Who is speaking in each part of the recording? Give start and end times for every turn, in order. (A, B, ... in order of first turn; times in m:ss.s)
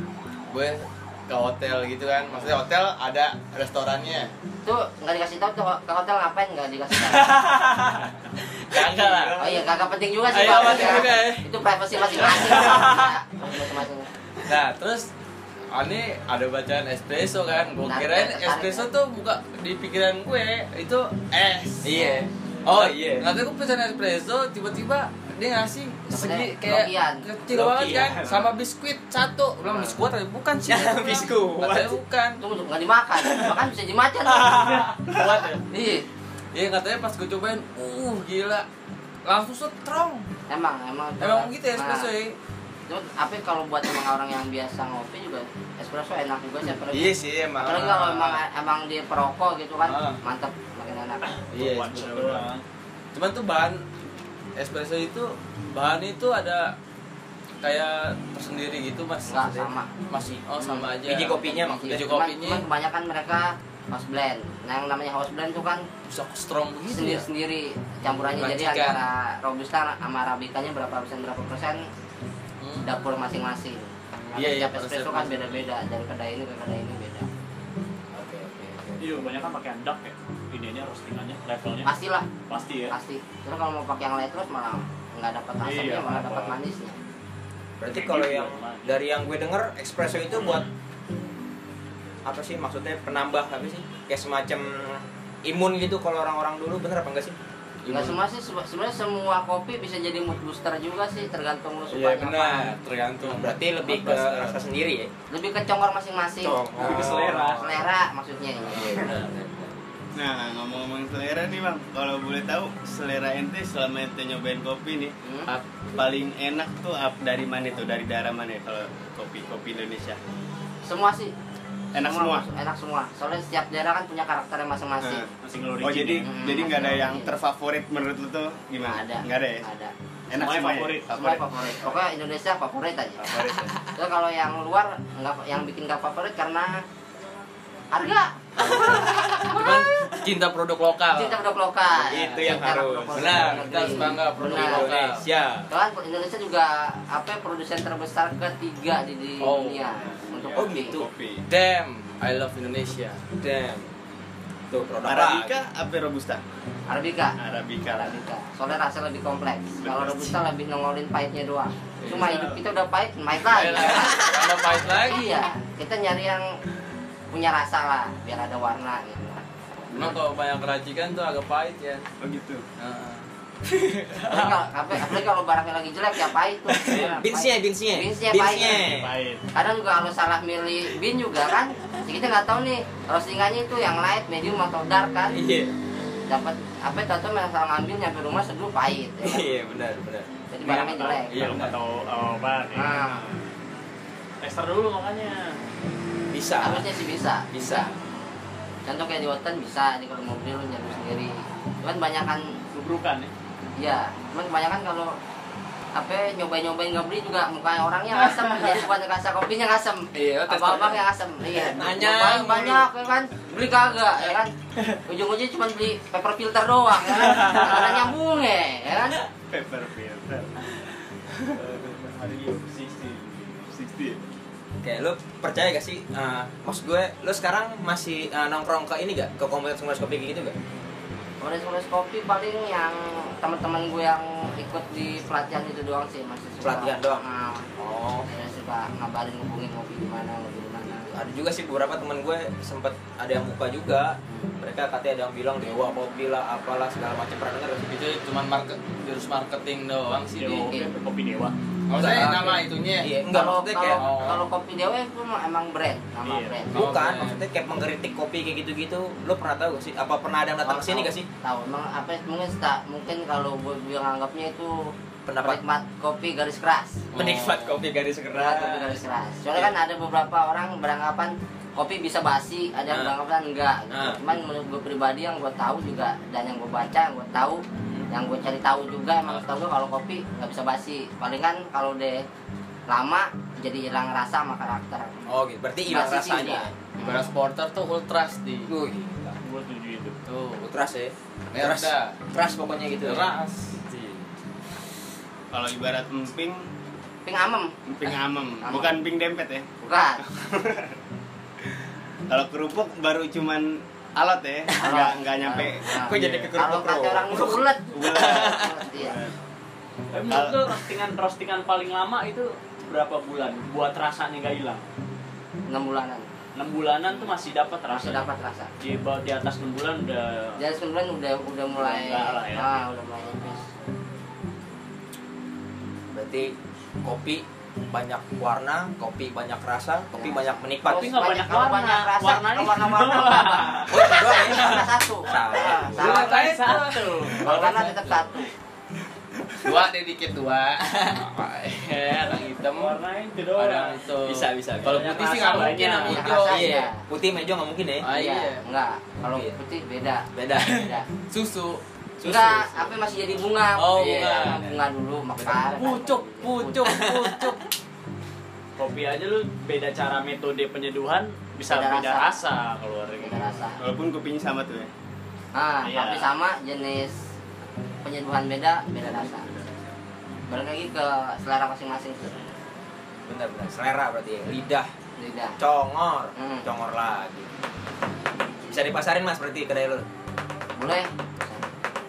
0:00.5-0:04.3 A
0:02.2-0:02.6 B
0:04.6-0:07.4 B
0:07.0-0:08.1 A
0:08.7-0:09.4 A
0:09.1-0:09.6 C
0:09.4-0:14.1 B
0:10.3-0:11.5 A
0:12.0-0:13.1 A
0:14.4-0:15.1 A
0:15.7-0:22.0 A
0:17.8-0:18.9 B
0:21.8-0:23.3 C
0:21.9-0:22.2 B
0:22.6-0:32.4 A
0:26.1-0:27.2 B
0:27.6-0:28.2 C
0:27.8-0:28.4 D
0:29.6-0:30.0 B
0:30.7-0:32.0 C
0:32.4-0:34.9 B
0:34.4-0:35.6 A
0:35.7-0:36.1 B
0:36.5-0:38.6 A
0:39.2-0:40.2 A
0:40.5-0:42.1 B
0:41.2-0:42.4 A
0:42.9-0:51.4 B
0:46.9-0:48.0 C
0:47.5-0:48.4 A
0:49.8-0:50.2 A
0:51.3-0:52.6 D
0:51.5-0:52.4 C
0:53.1-0:53.8 A
0:54.6-0:56.7 A
0:57.6-1:02.6 A
0:59.3-0:59.9 B
1:00.6-1:05.9 B
1:01.0-1:02.0 C
1:06.1-1:07.2 A
1:06.9-1:11.8 B
1:08.4-1:09.0 A
1:12.6-1:12.9 A
1:12.8-1:17.3 B
1:14.3-1:15.6 A
1:18.1-1:19.3 C
1:19.0-1:21.9 D
1:21.8-1:22.3 B
1:22.5-1:22.9 D
1:22.9-1:27.0 B
1:25.6-1:26.6 D
1:27.8-1:30.7 C
1:27.9-1:28.9 D
1:32.2-1:37.4 C
1:37.8-1:38.2 A
1:37.9-1:42.7 B
1:41.9-1:45.1 C
1:42.0-1:44.6 A
1:45.3-1:49.0 B
1:46.4-1:47.8 C
1:46.8-1:47.7 D
1:48.6-1:49.8 C
1:50.2-1:55.1 E
1:55.2-1:55.5 B
1:55.9-2:00.2 E
2:00.9-2:01.3 B
2:01.9-2:02.4 E
2:02.0-2:05.2 B
2:05.0-2:09.6 E
2:05.4-2:06.3 D
2:06.2-2:07.4 B
2:08.9-2:09.9 B
2:10.3-2:12.0 E
2:10.3-2:11.1 D
2:11.1-2:13.3 B
2:13.2-2:13.6 E
2:13.2-2:13.7 D
2:13.9-2:16.8 B
2:17.9-2:19.8 B
2:18.6-2:20.2 C
2:19.5-2:21.4 A
2:21.1-2:24.9 B
2:21.9-2:25.7 C
2:23.1-2:25.2 A
2:25.7-2:31.0 B
2:29.4-2:30.0 A
2:29.9-2:31.4 E
2:30.6-2:31.1 C
2:31.5-2:33.2 A
2:33.4-2:33.9 C
2:34.7-2:35.6 C
2:35.0-2:36.4 E
2:36.9-2:46.5 B
2:37.4-2:38.2 E
2:39.8-2:40.4 E
2:42.0-2:42.4 A
2:43.4-2:45.2 A
2:47.3-2:49.4 B
2:49.9-2:52.1 A
2:52.2-2:52.6 E
2:52.8-2:53.2 A
2:54.1-2:54.5 A
2:54.3-2:58.9 B
2:56.7-2:59.1 C
2:56.9-2:57.2 D
2:58.5-2:59.4 D
2:59.5-3:05.4 B
3:05.3-3:05.7 C
3:06.3-3:09.5 B
3:09.2-3:10.3 C
3:10.5-3:11.5 B
3:10.6-3:13.2 D
3:11.3-3:11.8 C
3:12.7-3:13.2 B
3:14.4-3:15.6 D
3:16.3-3:16.9 C
3:16.6-3:17.9 B
3:17.5-3:17.9 C
3:18.9-3:22.6 B
3:22.7-3:23.3 D
3:23.8-3:25.2 B
3:25.9-3:34.5 B
3:30.1-3:31.0 C
3:31.6-3:32.9 C
3:35.0-3:39.2 B
3:39.5-3:40.6 E
3:41.5-3:44.2 E
3:44.8-3:50.6 C
3:51.4-3:57.7 B
3:56.6-3:57.2 C
3:57.8-3:58.3 C
3:58.3-4:01.1 B
4:01.1-4:07.9 C
4:07.9-4:10.6 A
4:10.4-4:11.5 D
4:10.5-4:10.9 B
4:11.9-4:13.1 A
4:12.0-4:14.0 C
4:13.3-4:16.8 B
4:14.0-4:14.4 A
4:16.2-4:16.6 D
4:16.7-4:21.3 C
4:16.7-4:17.4 A
4:20.6-4:27.1 B
4:25.2-4:25.6 C
4:27.1-4:27.8 A
4:27.1-4:29.0 C
4:28.4-4:42.2 B
4:33.9-4:34.2 C
4:42.9-4:45.1 B
4:45.3-4:45.6 A
4:45.6-4:46.7 C
4:45.9-4:47.3 B
4:47.0-4:48.7 A
4:48.7-4:49.4 C
4:49.4-4:50.2 D
4:50.3-4:50.7 A
4:50.6-4:53.3 C
4:51.5-4:52.2 A
4:53.0-4:54.2 A
4:55.5-4:56.7 E
4:57.2-4:57.7 B
4:57.9-4:59.7 E
4:58.6-4:58.9 B
4:59.8-5:00.2 B
5:00.2-5:01.0 E
5:02.3-5:06.5 E
5:04.8-5:09.2 B
5:05.9-5:08.8 C
5:07.4-5:09.4 E
5:10.1-5:14.8 D
5:10.3-5:10.9 E
5:15.7-5:16.3 B
5:16.6-5:18.3 D
5:17.9-5:18.7 B
5:18.8-5:20.6 D
5:20.6-5:23.7 B
5:21.8-5:22.7 D
5:26.1-5:31.2 C
5:30.1-5:36.6 B
5:30.9-5:34.0 D
5:33.9-5:36.2 C
5:35.9-5:38.3 A
5:36.0-5:37.4 D
5:37.3-5:38.5 B
5:39.6-5:43.0 A
5:42.6-5:44.0 D
5:43.5-5:46.7 A
5:44.2-5:48.1 C
5:44.8-5:46.1 D
5:46.0-5:47.0 B
5:48.0-5:48.6 A
5:48.1-5:51.1 B
5:49.2-5:49.6 C
5:50.4-5:50.9 C
5:51.3-5:51.8 A
5:52.2-5:53.0 C
5:52.2-5:56.8 B
5:53.7-5:54.6 A
5:55.4-5:57.6 A
5:56.8-5:57.6 C
5:58.8-6:03.7 D
6:01.7-6:02.4 B
6:03.2-6:03.8 B
6:03.8-6:04.9 E
6:05.6-6:07.2 B
6:05.8-6:06.3 D
6:08.0-6:09.5 B
6:09.1-6:09.9 E
6:10.5-6:12.4 B
6:13.2-6:14.9 C
6:15.2-6:15.6 B
6:15.6-6:17.5 C
6:16.4-6:16.7 B
6:18.7-6:20.1 C
6:20.8-6:21.7 B